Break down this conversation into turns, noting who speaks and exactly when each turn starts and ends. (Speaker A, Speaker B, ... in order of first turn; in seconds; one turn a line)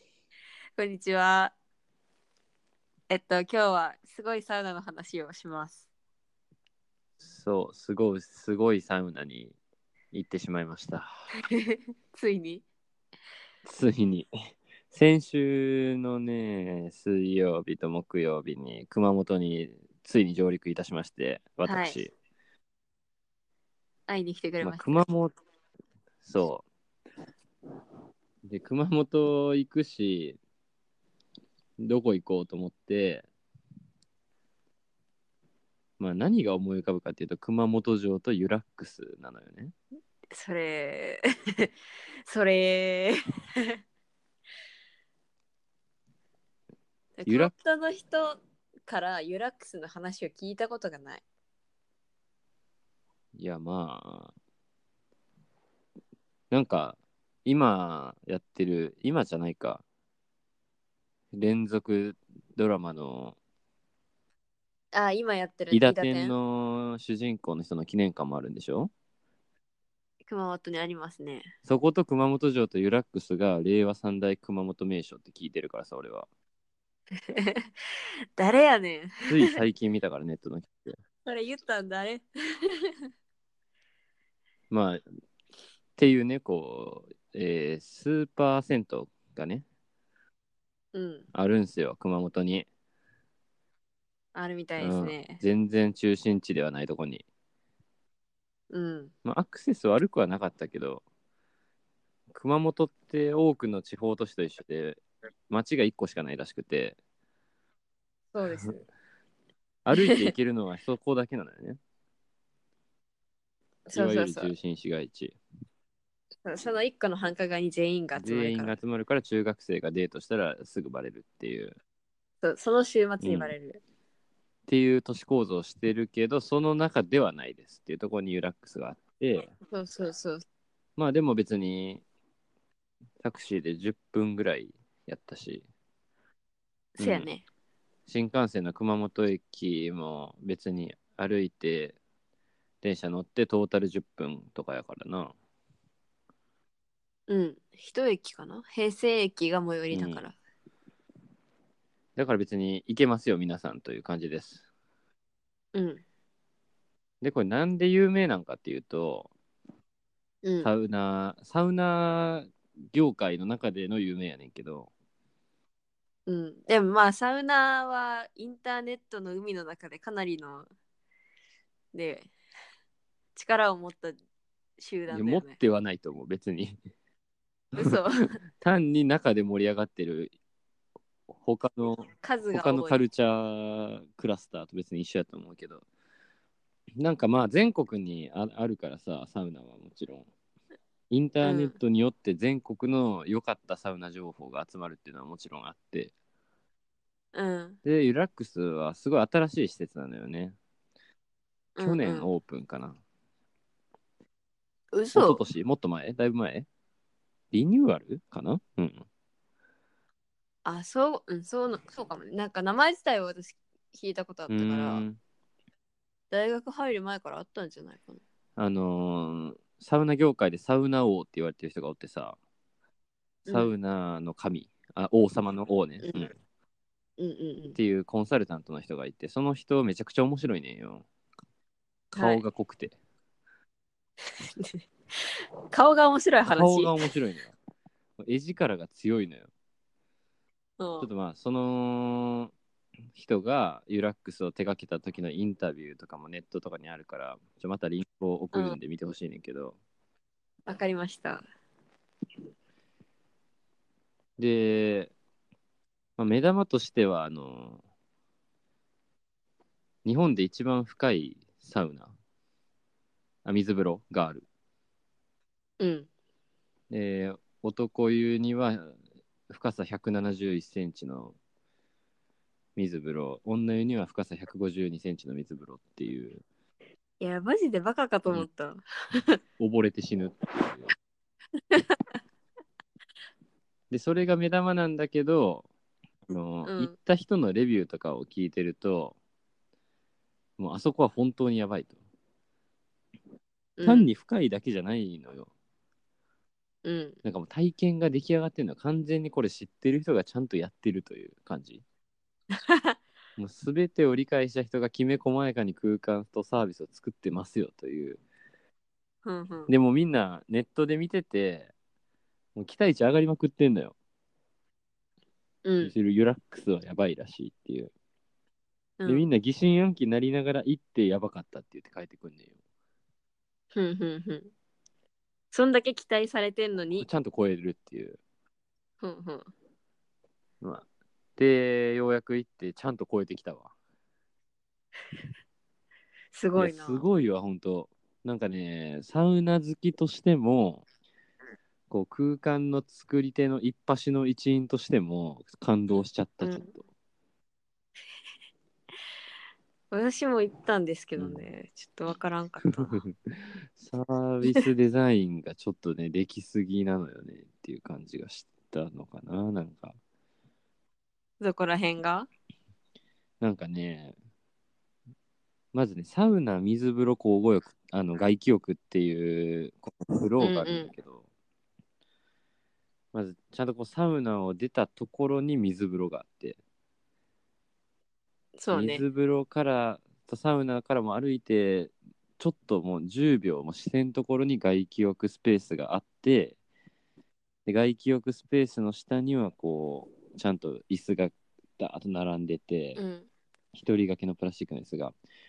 Speaker A: 0.8-1.5
Speaker A: 3.1-5.9
Speaker B: 7.2-9.6
Speaker B: 10.1-11.1
Speaker A: 11.5-12.6
Speaker B: 13.6-14.3
Speaker B: 14.9-22.1
Speaker A: 21.6-22.0
Speaker A: 24.1-25.0
Speaker B: 24.6-25.3
Speaker B: 26.2-26.6
Speaker B: 28.4-30.4
Speaker B: 31.8-33.2
Speaker B: 36.0-39.7
Speaker A: 40.3-41.7
Speaker A: 42.2-43.8
Speaker A: 47.2-51.2
Speaker B: 47.2-47.5
Speaker B: 53.3-54.3
Speaker B: 56.5-59.8
Speaker B: 61.3-63.4
Speaker A: 64.9-66.3
Speaker B: 65.7-68.9
Speaker A: 70.3-71.5
Speaker B: 71.7-76.3
Speaker A: 77.3-77.7
Speaker A: 78.4-79.5
Speaker B: 79.3-81.0
Speaker A: 81.2-82.7
Speaker B: 84.7-85.0
Speaker B: 86.0-89.6
Speaker A: 90.9-91.2
Speaker B: 91.3-92.7
Speaker A: 94.3-95.4
Speaker B: 94.8-97.2
Speaker A: 98.7-99.1
Speaker B: 99.2-101.0
Speaker B: 102.3-107.0
Speaker A: 108.3-108.8
Speaker B: 109.8-111.8
Speaker A: 110.0-110.3
Speaker A: 113.9-114.5
Speaker B: 113.9-115.3
Speaker A: 116.4-118.8
Speaker B: 118.2-121.8
Speaker A: 122.4-123.8
Speaker B: 123.2-123.5
Speaker B: 124.7-129.5
Speaker A: 129.7-130.4
Speaker B: 131.0-132.0
Speaker B: 133.2-135.6
Speaker A: 137.0-137.4
Speaker B: 137.0-137.3
Speaker B: 138.1-142.0
Speaker B: 142.8-145.3
Speaker A: 147.3-150.3
Speaker B: 149.9-150.2
Speaker B: 152.2-154.6
Speaker A: 155.7-156.0
Speaker B: 157.2-159.3
Speaker A: 160.4-160.7
Speaker B: 160.6-164.9
Speaker A: 166.3-170.7
Speaker A: 171.9-172.3
Speaker A: 173.3-174.2
Speaker A: 174.8-175.6
Speaker B: 175.1-176.8
Speaker A: 177.8-178.4
Speaker B: 178.6-180.3
Speaker B: 181.3-185.8
Speaker A: 182.2-183.0
Speaker B: 187.0-190.3
Speaker B: 191.1-196.1
Speaker A: 191.4-191.7
Speaker A: 197.3-197.8
Speaker B: 197.8-200.5
Speaker A: 201.8-202.3
Speaker B: 201.8-203.0
Speaker A: 204.9-205.4
Speaker B: 205.1-206.7
Speaker B: 207.5-209.1
Speaker A: 210.6-215.0
Speaker B: 214.5-215.2
Speaker A: 216.3-218.2
Speaker B: 218.6-222.4
Speaker A: 223.5-223.7
Speaker B: 223.5-226.3
Speaker A: 226.0-226.3
Speaker A: 227.2-227.8
Speaker B: 227.8-231.0
Speaker B: 232.1-232.9
Speaker A: 232.2-232.4
Speaker A: 234.3-236.9
Speaker B: 236.4-237.5
Speaker B: 238.2-239.5
Speaker A: 240.8-241.1
Speaker B: 241.0-242.5
Speaker B: 243.1-249.8
Speaker A: 248.5-248.8
Speaker A: 250.7-251.4
Speaker B: 254.4-255.1
Speaker B: 256.2-257.8
Speaker B: 260.0-262.1
Speaker B: 263.4-264.4
Speaker A: 265.8-266.1
Speaker B: 266.9-269.0
Speaker B: 269.5-271.4
Speaker B: 272.8-276.4
Speaker A: 277.2-279.4
Speaker B: 279.6-280.9
Speaker A: 281.7-282.0
Speaker B: 283.9-285.6
Speaker B: 286.3-289.2
Speaker A: 286.6-286.9
Speaker B: 290.6-292.0
Speaker A: 293.8-294.1
Speaker B: 293.8-295.5
Speaker A: 296.8-297.2
Speaker B: 297.2-301.8
Speaker A: 302.5-303.0
Speaker B: 303.4-308.2
Speaker A: 309.2-309.7
Speaker B: 309.7-311.7
Speaker B: 312.6-313.9
Speaker A: 315.6-315.9
Speaker B: 315.8-317.9
Speaker A: 319.0-319.3
Speaker B: 319.0-322.6
Speaker A: 323.7-324.5
Speaker A: 325.5-327.1
Speaker B: 327.0-328.2
Speaker A: 329.0-329.5
Speaker B: 330.6-330.9
Speaker B: 331.4-333.7
Speaker A: 336.3-337.1
Speaker B: 336.6-340.8
Speaker B: 341.9-346.8
Speaker A: 346.4-346.7
Speaker A: 349.9-353.0
Speaker B: 351.2-351.4
Speaker B: 353.8-359.9
Speaker A: 361.4-362.3
Speaker B: 363.4-364.1
Speaker B: 365.7-371.2
Speaker A: 370.4-370.9
Speaker B: 373.1-376.6
Speaker A: 378.6-379.0
Speaker B: 378.7-386.6
Speaker B: 387.6-393.0
Speaker A: 392.9-393.3
Speaker B: 393.7-395.1